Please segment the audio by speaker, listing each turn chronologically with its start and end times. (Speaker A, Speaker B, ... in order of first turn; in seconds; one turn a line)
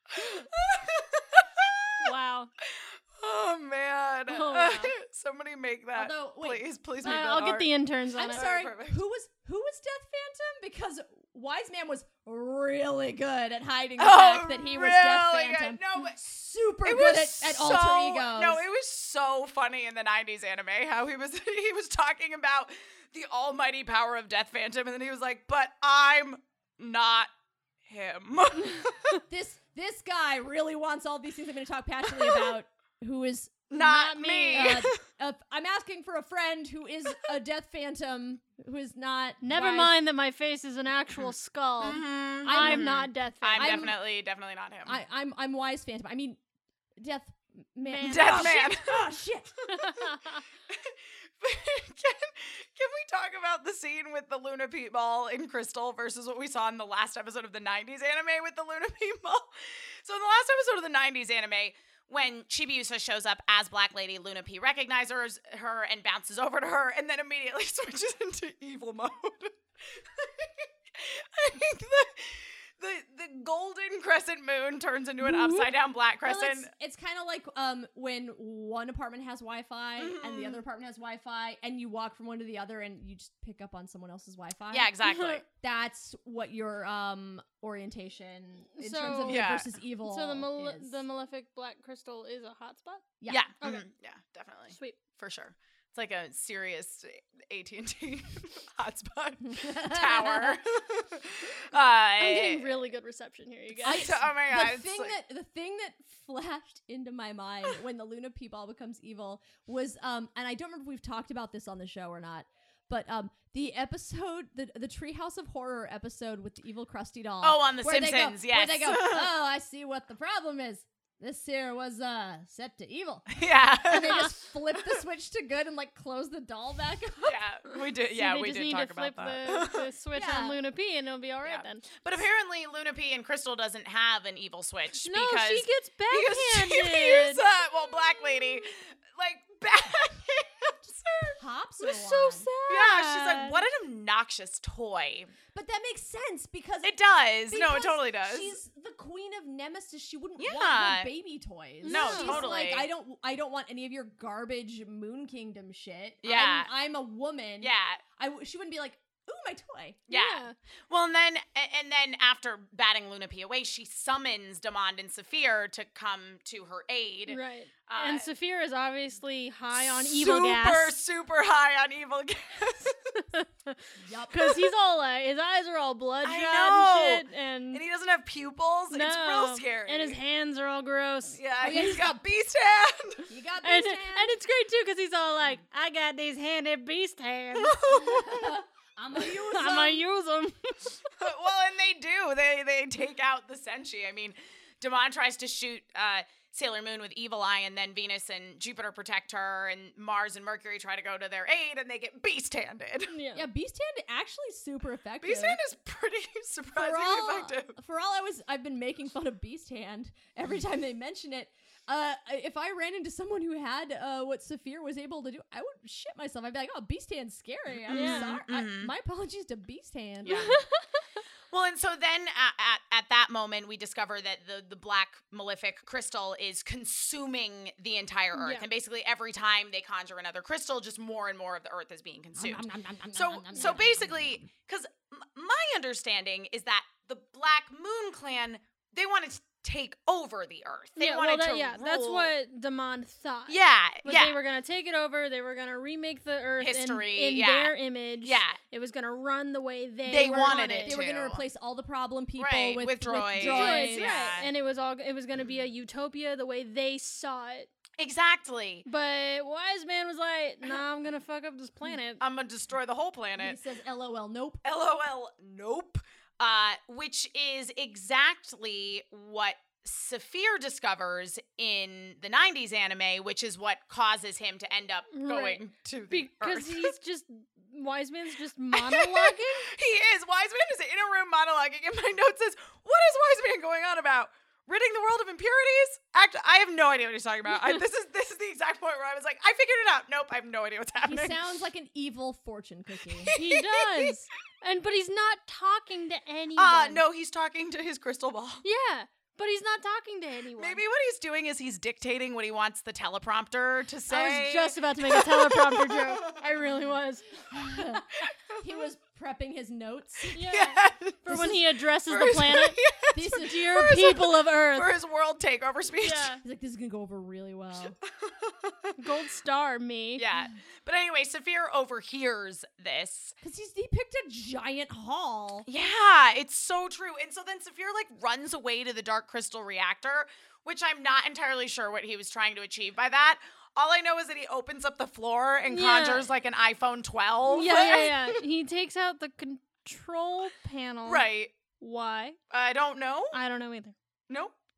Speaker A: 0.1-2.1
Speaker B: 2.0-2.5
Speaker A: 2.6-9.0
Speaker B: 4.3-4.9
Speaker C: 5.9-7.2
Speaker B: 7.0-8.5
Speaker C: 8.1-18.6
Speaker A: 14.0-16.2
Speaker A: 16.8-27.3
Speaker A: 27.9-29.2
Speaker C: 29.3-33.8
Speaker A: 33.7-34.9
Speaker B: 33.8-34.9
Speaker C: 34.5-39.9
Speaker B: 39.4-43.9
Speaker A: 41.8-45.0
Speaker C: 42.4-43.0
Speaker C: 43.5-44.0
Speaker C: 44.9-46.4
Speaker C: 47.0-49.7
Speaker B: 47.9-48.7
Speaker A: 48.0-49.0
Speaker B: 49.7-50.4
Speaker A: 50.7-76.7
Speaker B: 75.3-75.6
Speaker C: 76.2-84.9
Speaker A: 80.0-80.6
Speaker A: 84.7-85.4
Speaker B: 85.0-85.4
Speaker C: 85.5-91.0
Speaker B: 88.8-89.5
Speaker A: 89.2-89.7
Speaker B: 90.0-93.8
Speaker A: 93.3-102.7
Speaker B: 94.7-95.0
Speaker C: 99.4-100.6
Speaker B: 102.2-104.2
Speaker A: 103.8-105.1
Speaker C: 103.8-123.3
Speaker A: 117.4-119.3
Speaker A: 123.3-124.3
Speaker C: 123.8-127.4
Speaker A: 127.2-129.9
Speaker B: 128.1-131.8
Speaker C: 130.1-130.6
Speaker A: 131.4-141.4
Speaker B: 135.0-137.4
Speaker C: 141.4-142.5
Speaker B: 141.8-143.6
Speaker A: 142.7-145.3
Speaker C: 145.5-147.0
Speaker A: 146.8-148.6
Speaker C: 147.5-160.0
Speaker A: 150.4-151.1
Speaker B: 151.8-152.5
Speaker A: 151.8-152.9
Speaker A: 156.2-156.7
Speaker A: 157.6-158.0
Speaker A: 160.1-168.3
Speaker B: 160.1-160.5
Speaker B: 167.3-170.9
Speaker A: 169.8-173.0
Speaker B: 173.2-177.8
Speaker C: 174.0-174.6
Speaker A: 176.2-180.2
Speaker B: 178.9-181.9
Speaker A: 181.3-183.3
Speaker C: 181.6-182.2
Speaker C: 183.3-184.3
Speaker B: 183.6-188.2
Speaker A: 187.5-188.5
Speaker C: 188.1-190.0
Speaker B: 189.3-191.0
Speaker A: 191.2-203.1
Speaker B: 203.1-203.5
Speaker C: 203.3-205.6
Speaker A: 205.2-207.8
Speaker C: 206.7-220.6
Speaker A: 217.9-218.9
Speaker B: 217.9-218.4
Speaker A: 220.2-220.6
Speaker B: 220.3-220.8
Speaker A: 221.5-242.3
Speaker B: 228.3-228.7
Speaker C: 232.3-234.5
Speaker B: 241.0-251.0
Speaker A: 243.5-244.3
Speaker A: 246.6-248.6
Speaker A: 250.1-251.4
Speaker C: 250.3-254.3
Speaker A: 252.4-254.5
Speaker B: 253.3-257.7
Speaker A: 258.0-258.9
Speaker B: 258.9-262.2
Speaker A: 262.2-263.6
Speaker C: 263.4-264.6
Speaker A: 264.6-276.9
Speaker B: 275.1-279.7
Speaker A: 278.7-291.4
Speaker C: 291.0-293.3
Speaker A: 293.2-294.1
Speaker B: 293.3-297.0
Speaker A: 296.6-298.6
Speaker B: 298.6-300.8
Speaker A: 300.6-306.4
Speaker B: 304.1-307.4
Speaker C: 307.5-308.1
Speaker C: 308.6-310.4
Speaker B: 310.3-312.8
Speaker A: 310.4-311.5
Speaker A: 312.1-316.4
Speaker C: 313.1-313.8
Speaker B: 313.3-314.9
Speaker B: 316.0-316.4
Speaker C: 316.4-318.0
Speaker A: 318.1-319.0
Speaker B: 319.0-320.2
Speaker A: 320.1-323.3
Speaker C: 323.4-325.7
Speaker A: 325.6-338.4
Speaker B: 335.7-336.3
Speaker B: 337.5-341.2
Speaker A: 341.0-341.5
Speaker B: 341.8-342.4
Speaker A: 342.5-343.4
Speaker B: 343.3-343.9
Speaker A: 344.3-344.5